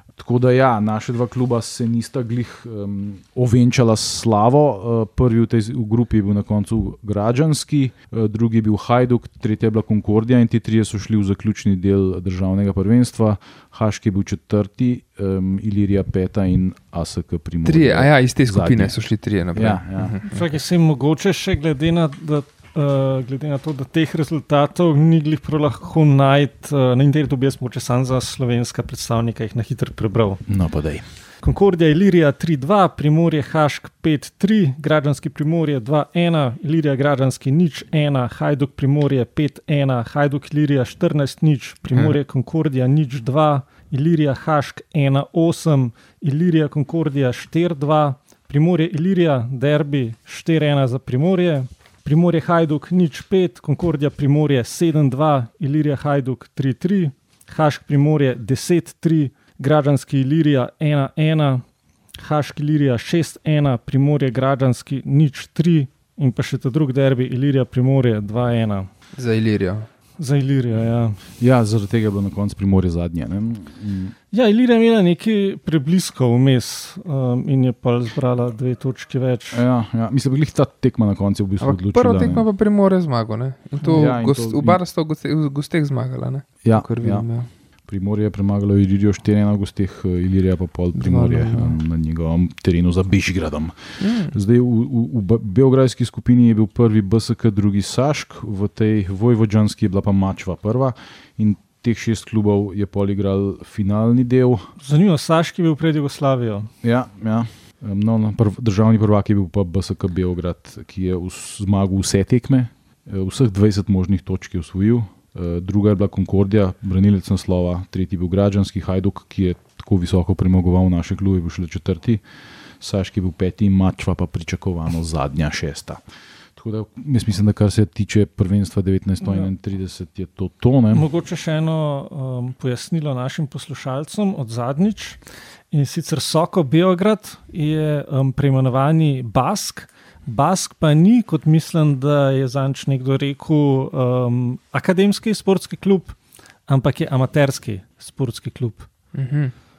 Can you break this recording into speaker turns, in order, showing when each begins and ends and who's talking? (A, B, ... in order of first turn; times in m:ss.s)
0:00.1-0:19.0 A
0:17.6-0:20.5 B
0:19.5-0:20.1 A
0:20.3-0:30.4 C
0:30.5-0:31.1 A
0:31.4-1:01.6 C
1:02.2-1:08.9 C
1:09.2-1:09.9 B
1:10.2-1:11.2 C
1:11.4-1:14.1 A
1:14.3-1:19.6 C
1:19.5-1:22.4 A
1:21.6-1:27.5 B
1:23.8-1:24.8 A
1:26.6-1:27.2 A
1:27.9-1:44.7 A
1:31.0-1:31.8 B
1:34.0-1:34.4 B
1:44.8-1:46.7 C
1:46.8-2:02.2 A
2:02.8-2:06.0 A
2:06.6-2:11.1 A
2:09.2-2:09.5 C
2:10.9-2:15.2 C
2:15.7-2:26.2 C
2:26.7-2:28.9 C
2:29.1-2:29.5 B